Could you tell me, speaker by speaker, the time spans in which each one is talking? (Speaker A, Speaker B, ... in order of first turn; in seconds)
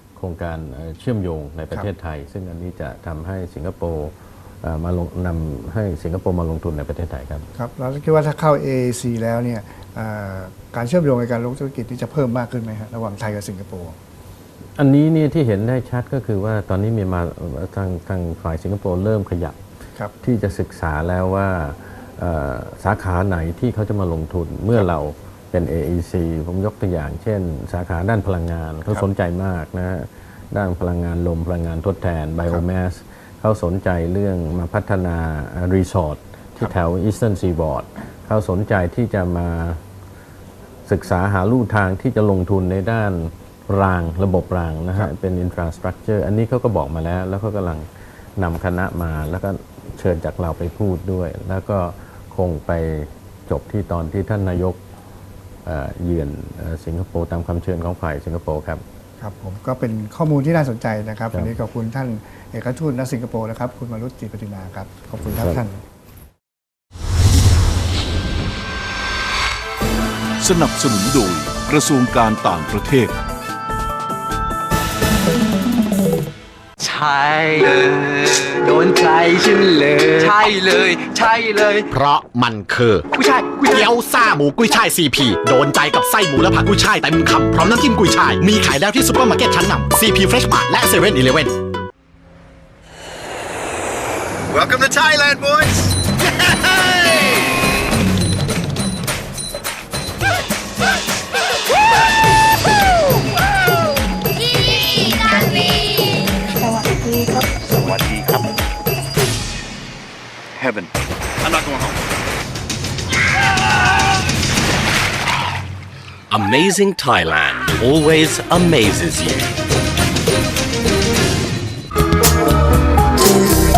Speaker A: 0.1-7.5, 14.8-19.6, 20.2-39.8, 40.9-54.8, 55.6-58.8
Speaker B: 7.5-13.9, 59.2-65.8
Speaker C: 70.4-73.1
Speaker D: 76.8-81.9, 106.7-107.3
Speaker E: 81.9-91.5
Speaker F: 94.5-95.9, 108.0-108.3, 111.5-111.9
Speaker G: 116.5-119.4